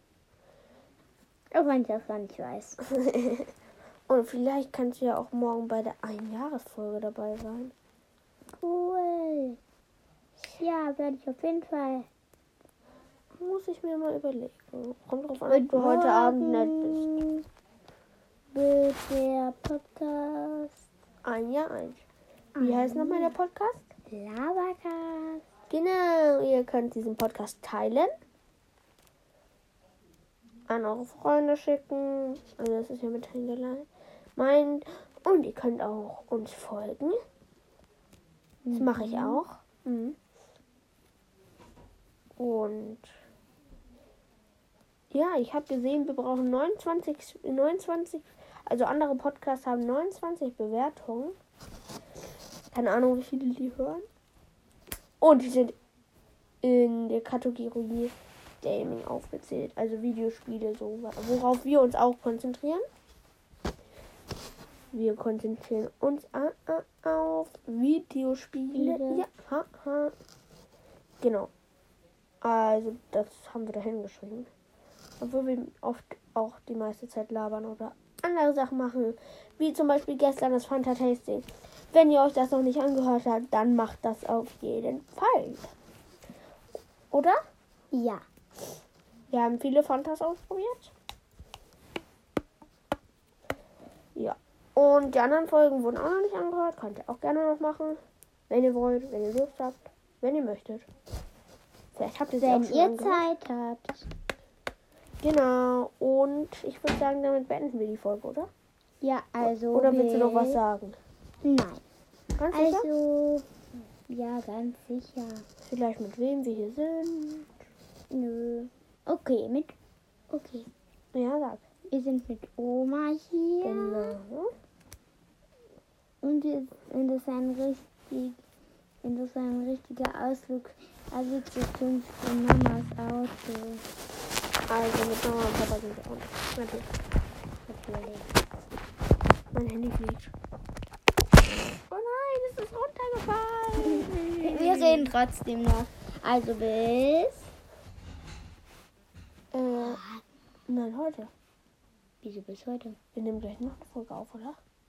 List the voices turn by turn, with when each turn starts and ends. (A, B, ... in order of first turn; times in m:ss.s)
0:01.5-0:02.8 A
0:02.9-0:03.5 B
0:04.1-0:07.7 B
0:08.6-0:09.6 A
0:10.4-0:12.1 A
0:13.4-0:17.1 B
0:15.5-0:17.4 A
0:18.5-0:20.8 A
0:21.2-0:22.0 B
0:22.5-0:23.3 A
0:22.6-0:23.8 B
0:24.1-0:25.4 A
0:25.7-0:28.1 B
0:30.7-0:37.2 B
0:38.6-0:39.4 A
0:38.7-0:40.2 B
0:42.4-0:43.1 B
0:45.1-0:51.4 B
0:52.7-0:54.0 B
0:55.2-0:55.8 B
0:56.6-1:02.8 B
1:04.9-1:10.1 B
1:08.7-1:09.2 A
1:11.2-1:11.5 B
1:12.4-1:14.5 B
1:15.2-1:25.7 B
1:27.1-1:27.4 B
1:27.9-1:28.2 A
1:29.3-1:30.9 B
1:34.2-1:40.9 B
1:41.9-1:43.2 B
1:42.4-1:44.1 A
1:45.2-1:48.5 B
1:49.0-1:50.6 A
1:49.4-1:51.0 B
1:51.4-1:51.8 A
1:52.4-1:52.9 B
1:52.5-1:53.5 A
1:54.1-1:55.4 A
1:55.6-1:57.5 B
1:58.1-1:59.7 A
2:00.3-2:00.7 A
2:01.1-2:01.6 B
2:01.9-2:04.2 A
2:03.6-2:04.5 B
2:06.2-2:08.4 A
2:09.0-2:13.8 A
2:14.7-2:16.9 B
2:17.7-2:18.3 A
2:19.5-2:20.3 B
2:21.9-2:25.1 B
2:23.8-2:27.5 A
2:29.5-2:30.0 B
2:29.8-2:30.2 A
2:30.7-2:31.3 B
2:32.2-2:33.0 A
2:33.1-2:34.6 B